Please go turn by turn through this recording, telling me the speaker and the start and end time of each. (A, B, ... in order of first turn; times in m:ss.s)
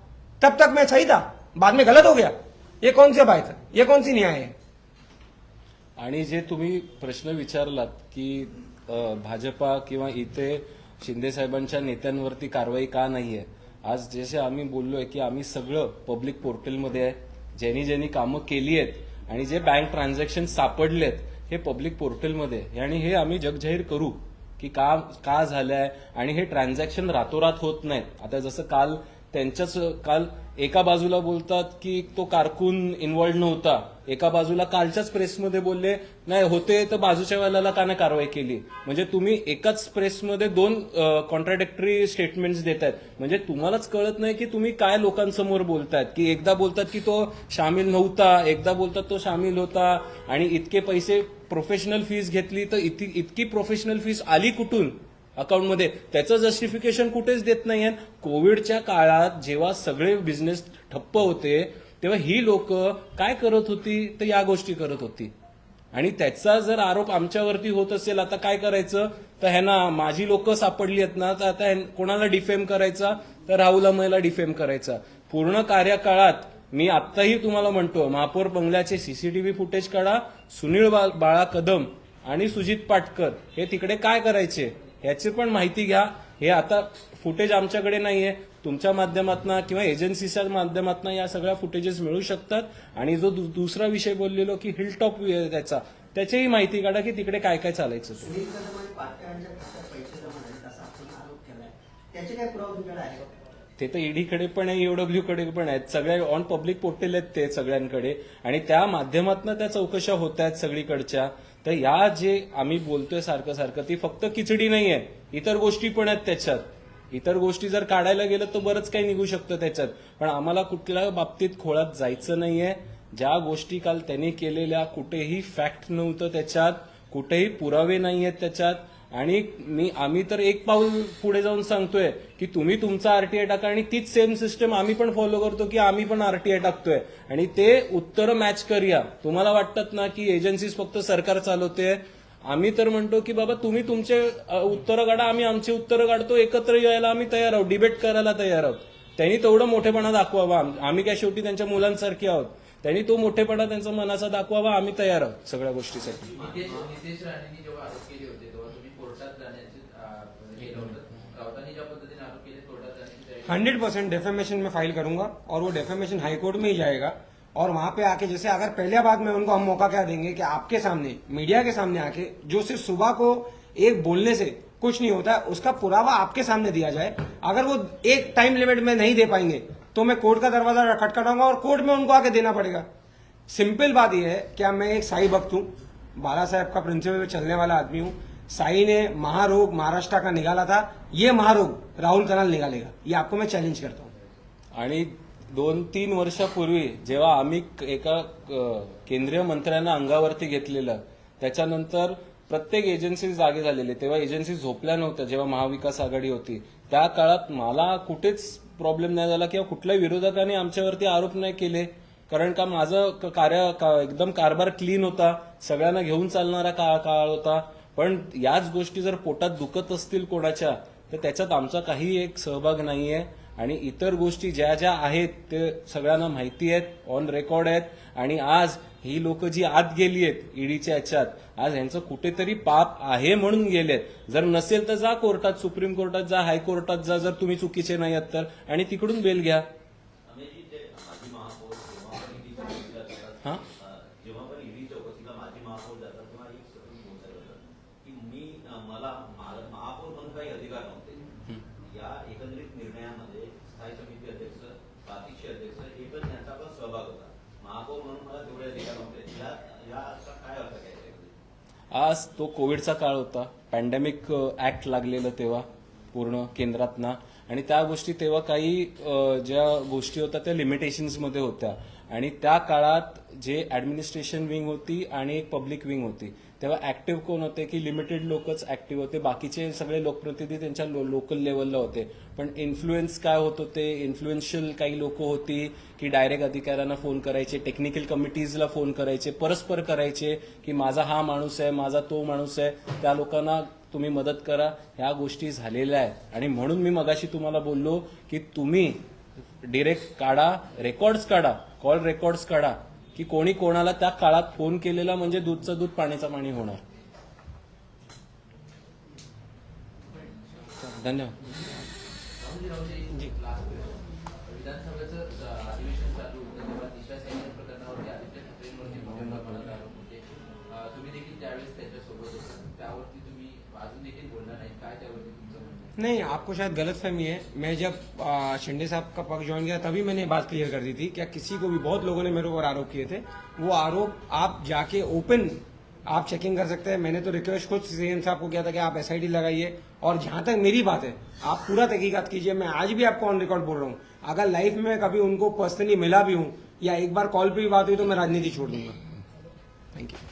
0:00.4-0:04.5 A
0:06.0-1:05.3 B
1:05.9-1:38.3 B
1:38.2-1:43.3 C
1:43.8-2:36.3 B
2:36.0-2:36.9 D
2:36.3-2:43.7 E
2:43.4-3:02.9 A
3:03.5-3:14.1 A
3:14.7-3:59.7 B
4:00.2-4:11.2 D
4:11.8-4:21.3 D
4:21.9-4:59.0 B
4:59.6-5:06.8 B
5:10.8-5:11.5 B
5:12.4-5:25.9 E
5:19.1-5:19.7 B
5:26.0-5:49.0 A